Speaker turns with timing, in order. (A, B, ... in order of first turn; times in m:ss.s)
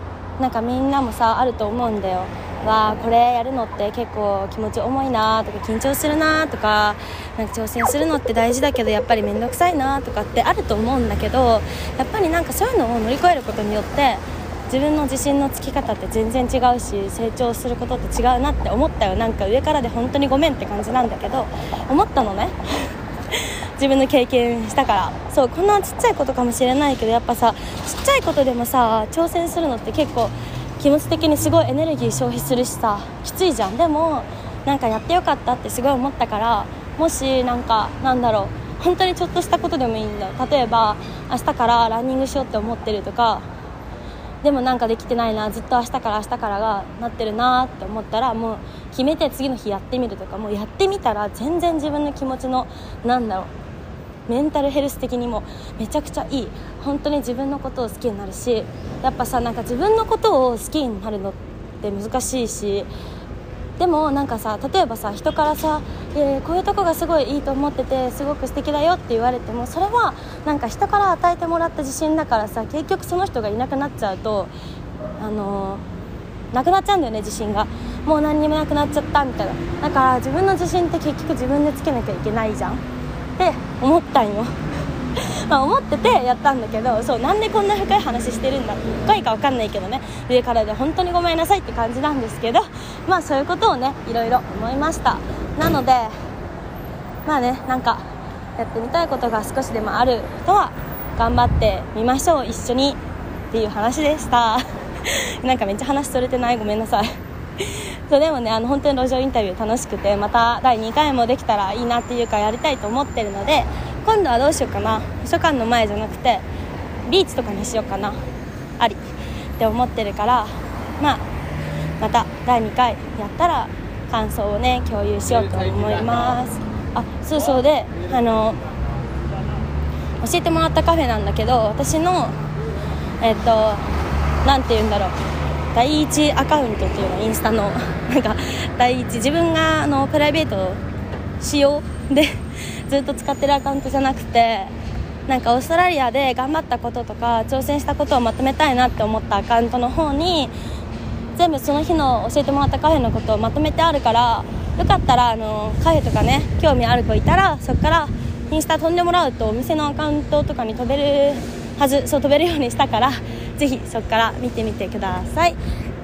0:00.4-0:43.4 A
0:44.4-0:53.5 A
0:54.3-1:02.9 A
1:03.8-1:14.5 A
1:15.2-1:15.8 A
1:16.5-1:22.8 A
1:23.4-1:24.5 A
1:25.2-1:36.1 A
1:37.2-1:38.0 A
1:38.6-1:43.0 A
1:43.5-1:56.4 A
1:57.0-1:58.2 A
1:59.6-2:01.2 A
2:02.0-2:08.6 A
2:10.2-2:12.4 A
2:13.2-2:13.9 A
2:14.4-2:15.1 A
2:15.7-2:20.8 A
2:21.4-2:24.7 A
2:25.3-2:30.5 A
2:31.4-2:45.6 A